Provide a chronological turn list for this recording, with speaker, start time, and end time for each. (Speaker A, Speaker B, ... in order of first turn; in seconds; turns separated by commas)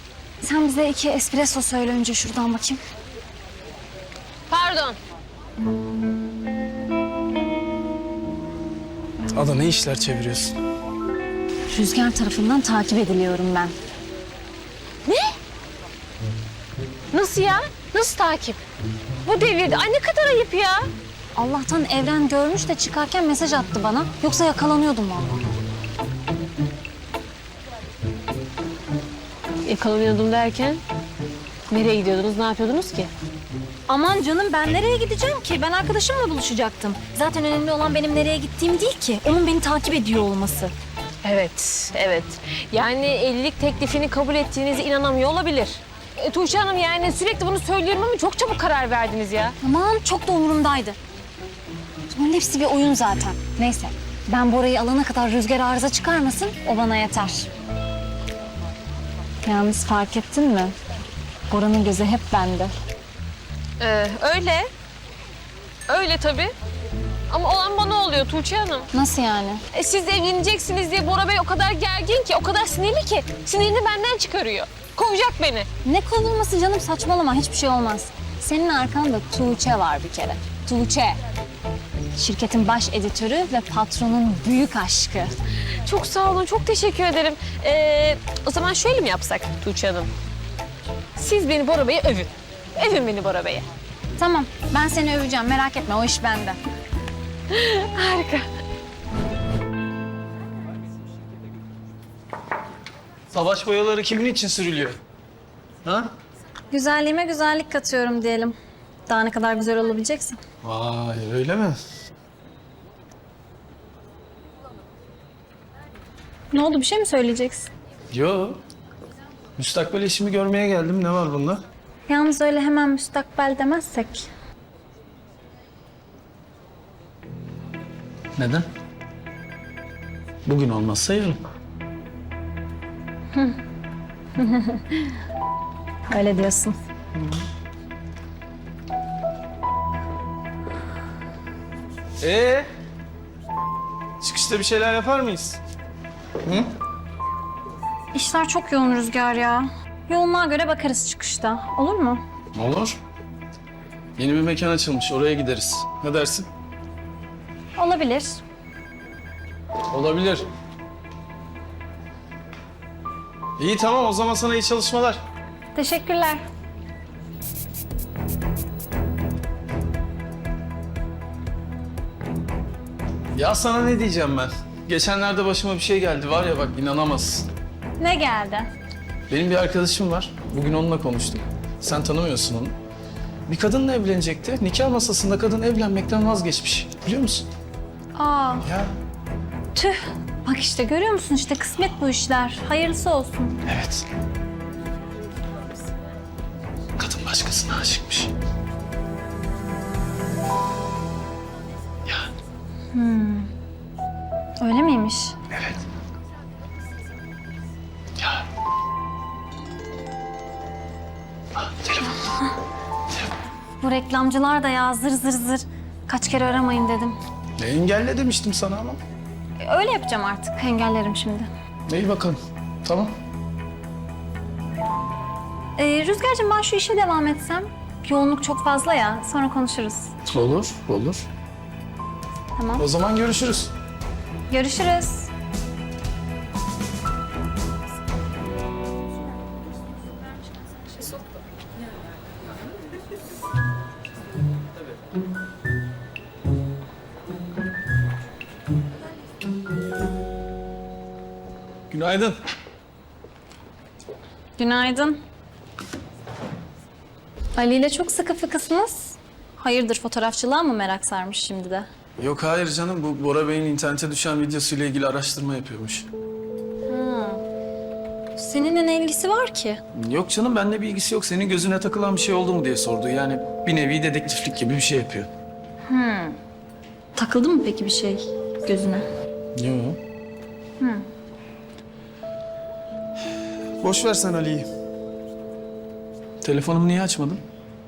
Speaker A: 0.4-2.8, Speaker B: 4.5-5.0, Speaker C: 9.3-10.6, Speaker A: 11.7-13.7, Speaker B: 15.1-15.4, Speaker B: 17.1-18.6, Speaker B: 19.2-20.9, Speaker A: 21.3-25.4, Speaker B: 29.6-30.8, Speaker B: 31.7-33.1, Speaker A: 33.9-40.7, Speaker B: 41.2-49.5, Speaker A: 49.6-51.0, Speaker A: 52.1-57.5, Speaker A: 59.4-60.7, Speaker A: 61.5-62.7, Speaker B: 63.8-64.7, Speaker B: 65.9-66.5, Speaker B: 67.3-68.9, Speaker A: 68.9-69.6, Speaker B: 69.7-75.7, Speaker A: 75.8-81.2, Speaker A: 82.1-85.4, Speaker B: 85.8-90.1, Speaker B: 91.2-93.7, Speaker A: 94.2-96.6, Speaker B: 97.5-98.5, Speaker C: 103.3-105.0, Speaker A: 106.7-108.5, Speaker A: 109.1-110.4, Speaker C: 110.6-111.8, Speaker A: 116.5-117.7, Speaker C: 118.1-118.6, Speaker C: 119.6-121.6, Speaker A: 122.1-124.3, Speaker C: 128.3-128.7, Speaker C: 130.4-131.4, Speaker A: 133.3-133.6, Speaker A: 134.3-135.2, Speaker A: 136.1-136.8, Speaker C: 137.2-137.4, Speaker C: 142.2-142.7, Speaker C: 144.2-145.6, Speaker C: 146.4-146.7, Speaker A: 148.1-152.2, Speaker C: 152.5-153.0, Speaker C: 154.2-156.5, Speaker A: 157.8-158.4, Speaker C: 159.9-160.5, Speaker C: 163.6-165.2, Speaker A: 165.7-166.4, Speaker C: 173.3-177.5, Speaker A: 178.0-178.7, Speaker C: 179.3-182.8, Speaker C: 183.5-187.4, Speaker A: 188.1-188.7, Speaker C: 188.6-188.9, Speaker A: 189.7-193.6, Speaker C: 193.7-194.0, Speaker C: 197.0-198.3, Speaker A: 202.9-203.5, Speaker A: 204.6-205.4, Speaker C: 208.2-208.4, Speaker C: 211.6-212.1, Speaker A: 213.8-217.2, Speaker C: 217.6-219.0, Speaker A: 219.6-221.5, Speaker C: 221.9-223.2, Speaker A: 225.8-230.1, Speaker C: 230.3-231.2, Speaker A: 232.6-232.8, Speaker C: 232.8-233.7, Speaker A: 234.5-235.3, Speaker C: 251.9-252.4, Speaker A: 254.6-255.2, Speaker A: 257.6-261.9, Speaker C: 262.2-266.1, Speaker A: 266.9-267.4, Speaker A: 268.4-269.8, Speaker C: 269.9-275.3, Speaker A: 275.9-276.4, Speaker A: 277.1-279.1, Speaker C: 279.5-280.0, Speaker A: 280.8-281.1, Speaker C: 283.8-284.7, Speaker C: 286.4-287.4